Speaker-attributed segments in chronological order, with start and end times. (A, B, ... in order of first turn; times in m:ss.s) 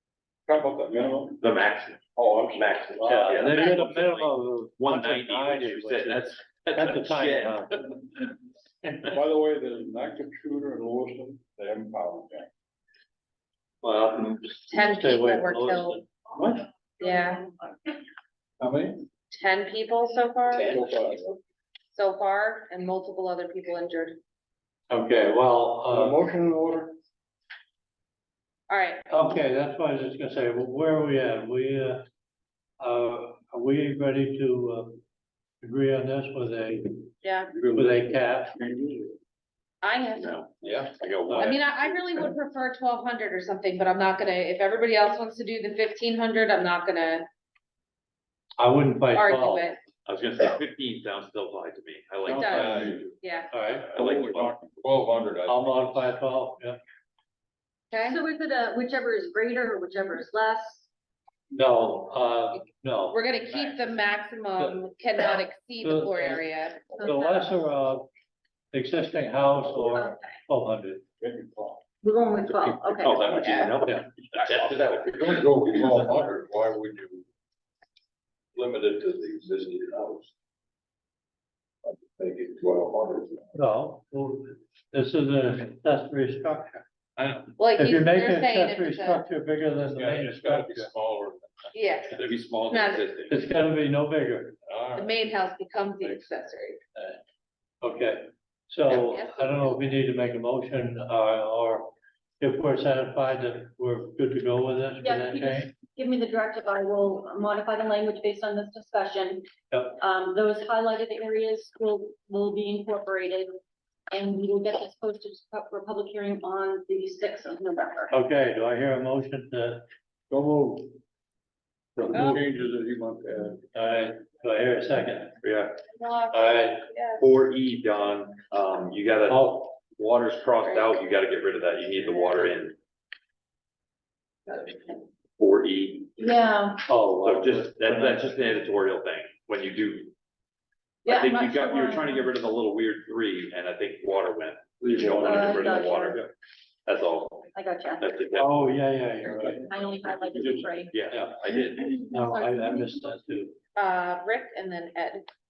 0:00.5-0:01.4 A
0:01.4-0:08.1 B
0:02.2-0:03.7 A
0:03.0-0:07.7 C
0:09.0-0:12.5 A
0:13.8-0:14.5 B
0:14.7-0:16.0 D
0:14.7-0:16.0 C
0:16.3-0:16.6 A
0:17.0-0:17.4 D
0:17.0-0:17.6 E
0:18.6-0:19.0 A
0:19.3-0:20.8 D
0:20.6-0:21.4 A
0:21.9-0:24.2 D
0:24.9-0:26.2 C
0:25.9-0:27.0 A
0:28.7-0:29.1 D
0:29.1-0:32.0 C
0:32.8-0:35.0 C
0:35.6-0:37.1 C
0:37.2-0:37.5 D
0:37.5-0:39.2 A
0:37.7-0:38.6 C
0:39.8-0:40.3 D
0:40.1-0:42.2 B
0:41.3-0:41.5 C
0:41.4-0:47.3 D
0:48.6-0:49.7 C
0:49.1-0:49.8 D
0:50.0-0:53.0 B
0:52.3-0:53.2 A
0:52.3-0:53.6 D
0:53.5-0:53.9 C
0:53.7-0:56.0 A
0:53.9-0:54.6 B
0:55.5-0:56.8 C
0:57.9-0:58.2 D
0:58.0-1:00.9 E
1:01.5-1:03.2 C
1:03.1-1:07.5 D
1:05.8-1:08.1 C
1:08.7-1:11.0 C
1:09.8-1:10.4 E
1:11.2-1:11.8 A
1:12.0-1:13.5 E
1:12.9-1:16.1 B
1:13.2-1:13.6 A
1:14.6-1:17.3 A
1:18.6-1:20.3 A
1:21.8-1:23.5 A
1:23.5-1:26.8 C
1:27.2-1:27.6 A
1:27.6-1:29.2 D
1:27.7-1:30.9 C
1:29.8-1:31.8 A
1:31.7-1:32.2 D
1:32.1-1:33.4 B
1:32.7-1:33.1 D
1:33.3-1:34.6 C
1:34.7-1:35.2 A
1:35.0-1:36.8 D
1:37.8-1:45.7 C
1:38.9-1:39.8 D
1:45.0-1:53.5 E
1:49.7-1:50.0 C
1:54.1-1:58.2 E
1:58.1-2:01.0 C
2:02.0-2:02.4 C
2:02.1-2:03.7 A
2:02.1-2:02.4 D
2:03.7-2:05.4 C
2:05.4-2:05.8 B
2:05.9-2:07.3 D
2:06.4-2:12.8 B
2:09.3-2:09.7 C
2:10.6-2:11.0 D
2:15.4-2:16.2 B
2:16.2-2:16.8 E
2:16.8-2:18.5 C
2:17.2-2:20.1 B
2:21.0-2:22.3 E
2:21.0-2:26.3 B
2:24.8-2:25.6 C
2:24.9-2:25.8 A
2:25.0-2:26.2 E
2:26.9-2:28.6 B
2:27.5-2:28.1 E
2:28.4-2:29.7 C
2:29.7-2:31.0 E
2:30.4-2:31.3 C
2:30.9-2:32.0 B
2:32.1-2:33.6 C
2:32.1-2:32.9 E
2:33.8-2:35.3 D